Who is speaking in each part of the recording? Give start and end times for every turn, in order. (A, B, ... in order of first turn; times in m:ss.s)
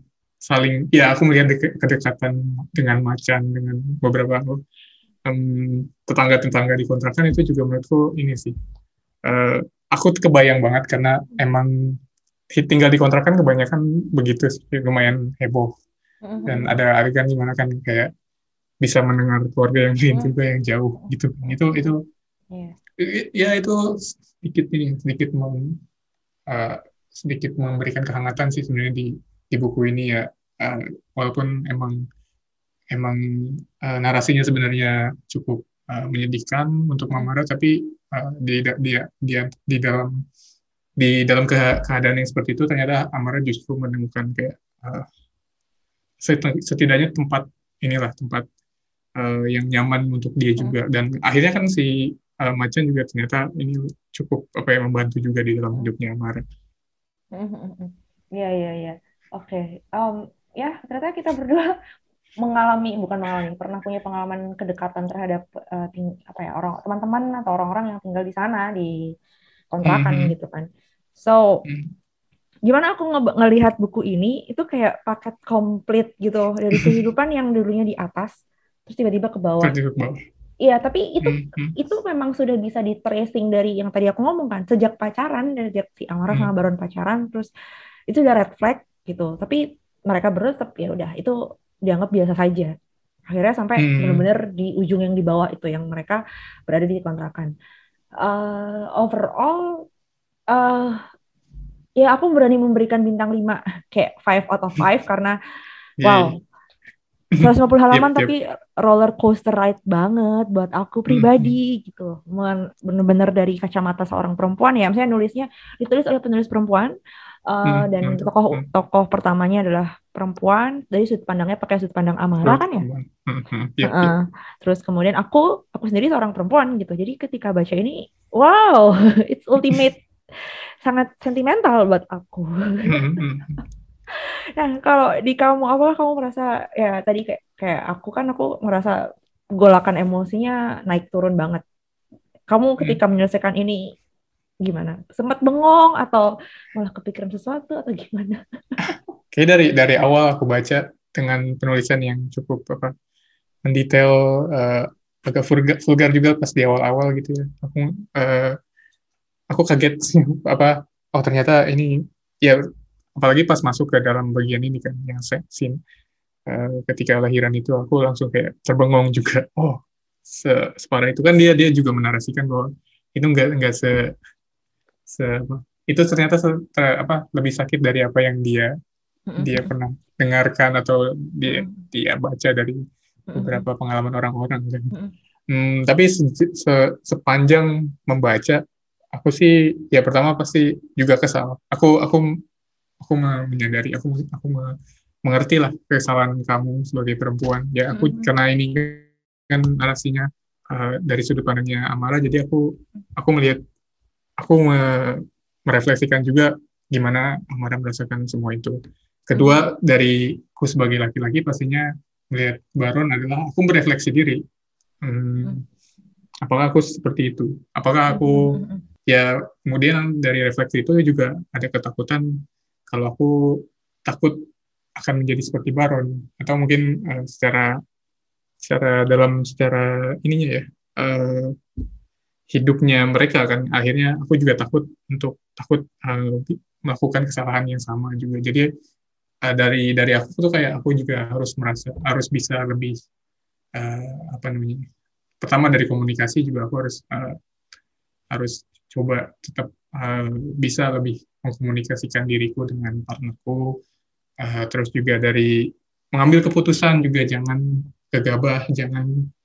0:00.4-0:04.6 A
0:05.2-0:08.5 A
0:09.2-0:12.0 A
0:12.5-0:15.7 A
0:16.2-0:16.8 B
0:16.5-0:18.1 A
0:18.8-0:22.0 A
0:21.0-0:21.9 B
0:22.5-0:22.8 B
0:23.0-0:25.8 A
0:26.5-0:32.0 A
0:32.9-0:40.2 A
0:41.0-0:45.1 A
0:46.2-0:48.4 A
0:49.2-0:56.4 A
0:57.3-1:01.8 B
1:02.4-1:09.1 B
1:09.7-1:11.6 B
1:09.8-1:10.3 A
1:11.6-1:11.9 A
1:12.7-1:19.7 B
1:19.6-1:20.2 A
1:20.6-1:27.5 B
1:21.2-1:21.8 A
1:28.1-1:32.7 B
1:33.3-1:37.5 B
1:33.8-1:34.3 A
1:38.2-1:39.8 B
1:40.5-1:41.0 B
1:42.0-1:45.4 B
1:46.0-1:46.3 A
1:46.0-1:46.4 B
1:47.3-1:48.3 A
1:47.4-1:56.9 B
1:51.1-1:51.6 A
1:57.5-2:02.8 B
1:57.6-1:58.6 A
2:02.4-2:04.1 A
2:03.8-2:13.1 B
2:12.9-2:13.6 A
2:14.1-2:19.0 B
2:19.6-2:21.6 B
2:22.5-2:23.9 B
2:24.6-2:28.4 B
2:28.8-2:32.9 A
2:33.6-2:38.6 A
2:39.5-2:42.6 A
2:43.2-2:45.8 A
2:46.5-2:54.0 A
2:55.1-2:58.7 A
2:59.3-2:59.7 B
2:59.4-3:02.8 A
3:01.5-3:01.9 B
3:03.3-3:03.6 B
3:03.4-3:04.9 A
3:05.5-3:08.6 A
3:09.1-3:12.3 A
3:13.0-3:23.6 A
3:17.9-3:18.3 B
3:24.4-3:34.4 A
3:29.4-3:29.6 B
3:35.0-3:35.6 A
3:36.4-3:42.3 A
3:38.1-3:38.8 B
3:42.9-3:44.4 A
3:45.0-3:47.7 A
3:48.6-3:51.6 A
3:52.5-3:58.7 A
3:59.4-4:03.0 A
4:03.8-4:04.8 A
4:05.4-4:07.4 A
4:08.3-4:13.8 A
4:14.4-4:19.2 A